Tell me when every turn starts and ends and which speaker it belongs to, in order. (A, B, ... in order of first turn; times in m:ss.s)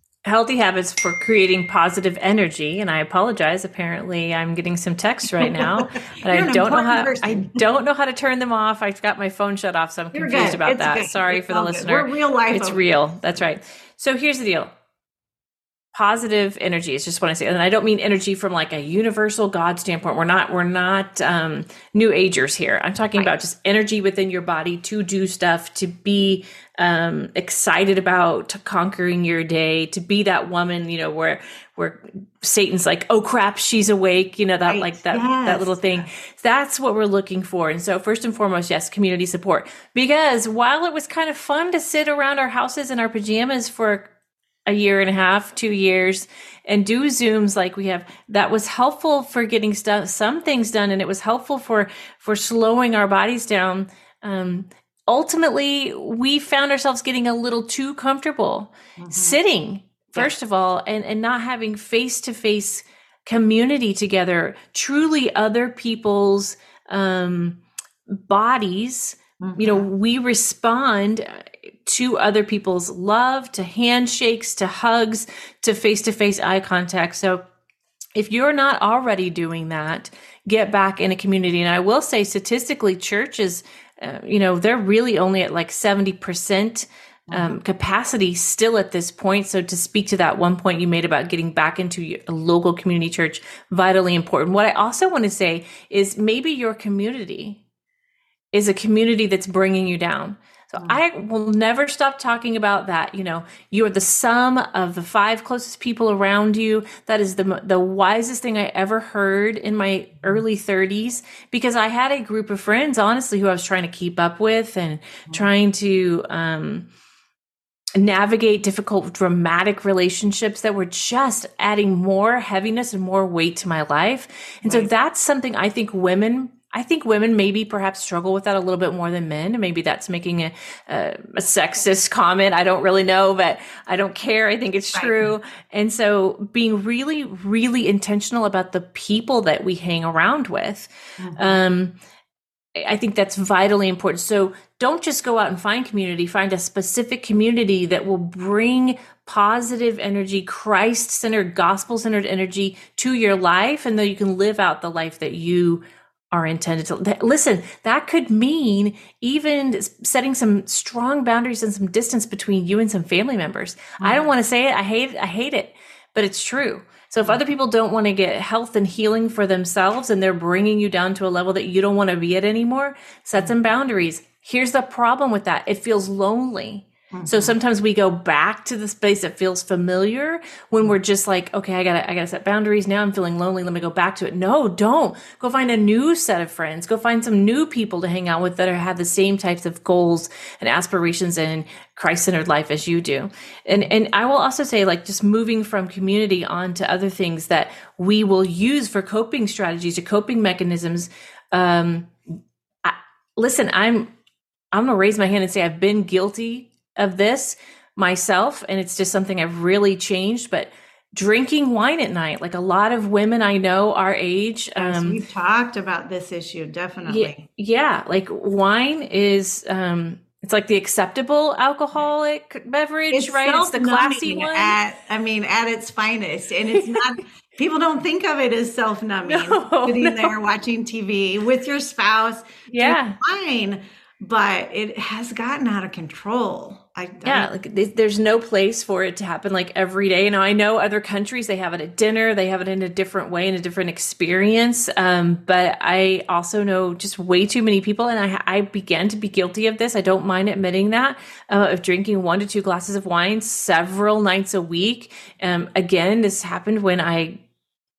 0:00.2-0:14.7 A
0:05.4-0:07.6 B
0:10.1-0:12.8 B
0:15.9-0:44.1 A
0:34.7-0:36.1 B
0:44.7-1:07.6 A
0:59.0-0:59.4 B
1:08.1-1:17.4 A
1:09.4-1:09.9 B
1:18.2-1:37.6 A
1:27.3-1:27.6 B
1:38.5-1:56.9 A
1:58.0-2:22.0 A
2:04.6-2:04.9 B
2:15.0-2:15.2 B
2:21.2-2:21.6 B
2:22.8-3:22.1 A
2:44.0-2:44.3 B
2:57.1-2:57.6 B
3:22.8-3:24.1 A
3:24.7-3:35.2 A
3:34.8-3:37.4 B
3:37.0-3:44.8 A
3:43.1-3:57.5 B
3:49.3-3:50.3 A
3:52.7-3:53.2 A
3:57.2-4:17.4 A